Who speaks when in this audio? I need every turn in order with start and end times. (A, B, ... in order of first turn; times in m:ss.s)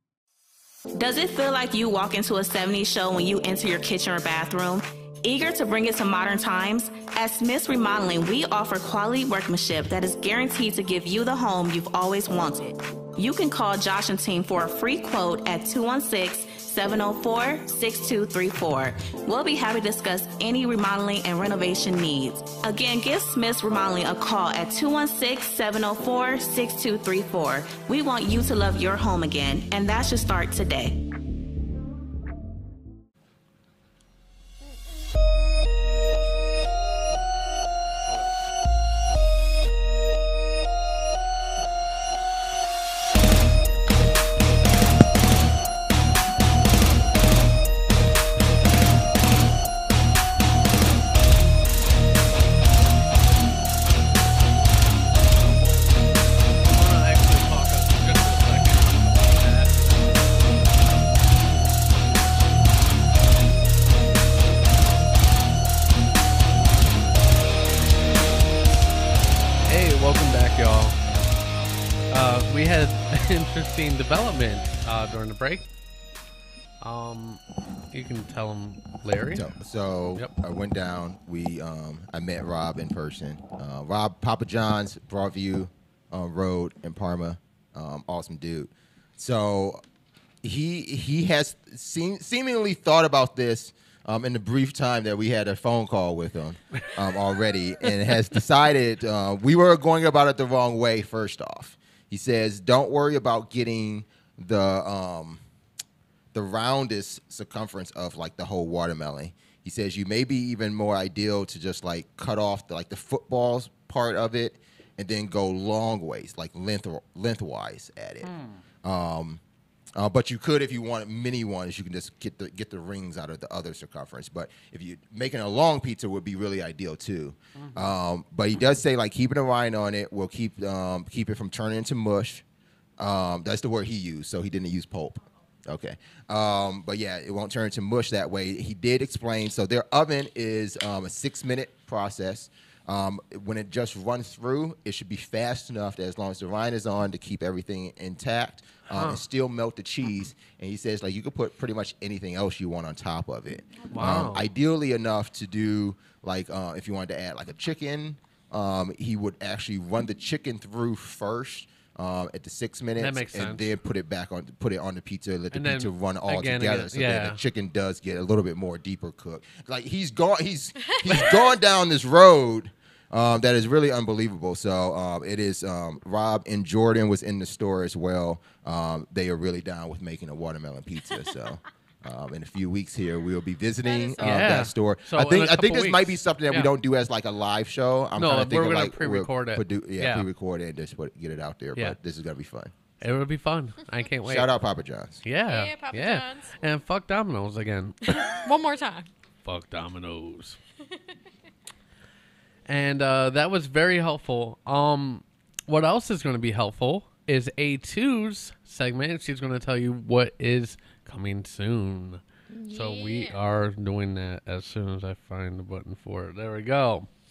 0:00.9-0:31.0 A
0:55.4-0:55.9 B
0:56.6-1:00.3 B
1:09.7-1:11.0 B
1:12.1-1:15.7 B
1:16.8-1:17.4 B
1:17.9-1:19.5 B
1:19.3-1:29.8 C
1:30.4-1:45.4 C
1:46.3-1:59.4 C
1:59.9-2:12.4 C
2:13.0-3:12.7 C
2:28.9-2:29.2 B
2:33.9-2:34.5 B
2:43.0-2:43.7 B
2:45.5-2:47.4 B
2:50.9-2:51.5 D
3:03.8-3:04.6 D
3:04.2-3:06.7 B
3:08.2-3:10.3 B
3:13.0-3:14.5 B
3:14.2-3:15.2 C
3:15.2-3:18.0 B
3:15.4-3:16.6 D
3:18.1-3:19.1 D
3:19.4-3:20.6 B
3:22.7-3:37.1 B
3:32.5-3:33.4 D